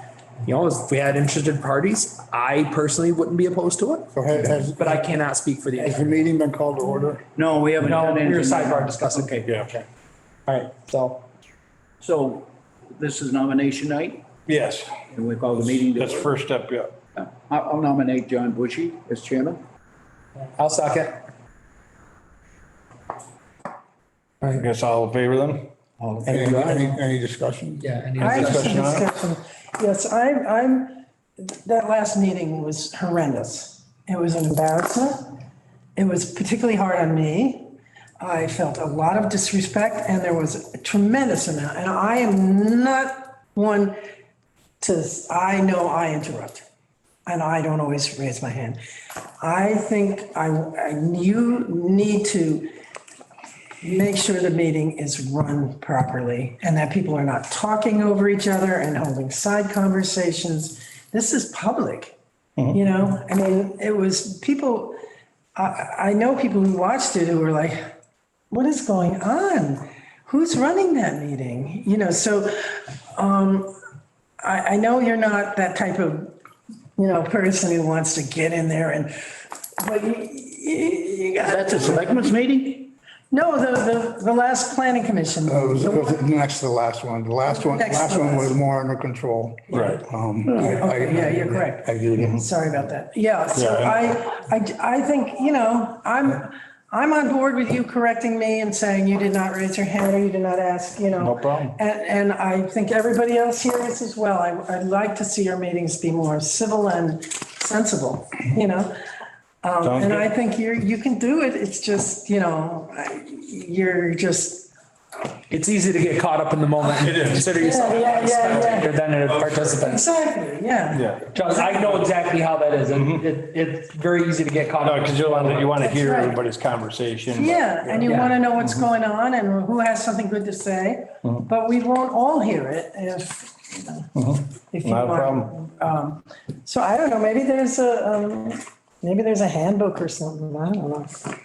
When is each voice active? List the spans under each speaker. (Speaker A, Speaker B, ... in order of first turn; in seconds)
Speaker A: 0.4-4.1, 4.7-6.2, 7.8-9.4, 10.5-11.2, 20.6-21.2, 27.8-28.8, 115.5-120.0, 121.3-125.9, 128.0-128.4
Speaker B: 4.1-5.0, 5.8-7.2, 26.3-27.8, 85.4-92.4
Speaker C: 7.3-9.5, 12.0-14.2, 15.1-16.3, 17.4-19.6, 26.0-27.0, 81.4-82.9
Speaker D: 9.4-9.8, 14.5-14.9, 15.6-16.9, 24.5-25.7, 28.2-29.1, 89.7-90.0, 92.2-92.4, 93.5-94.0, 101.2-101.7, 109.8-110.3, 117.0-117.5, 119.3-119.8, 120.9-121.3, 122.9-123.2, 124.8-128.7, 134.1-135.5
Speaker E: 28.2-35.4, 36.0-44.0, 44.8-46.6, 47.2-48.8, 49.4-52.7, 53.8-62.1, 62.7-65.0, 65.5-67.8, 68.5-73.7, 74.4-76.3, 77.0-82.3, 83.3-86.2, 87.5-88.5, 89.7-108.9, 109.6-114.7, 117.5-118.9, 119.7-122.1, 125.8-126.4, 127.3-141.3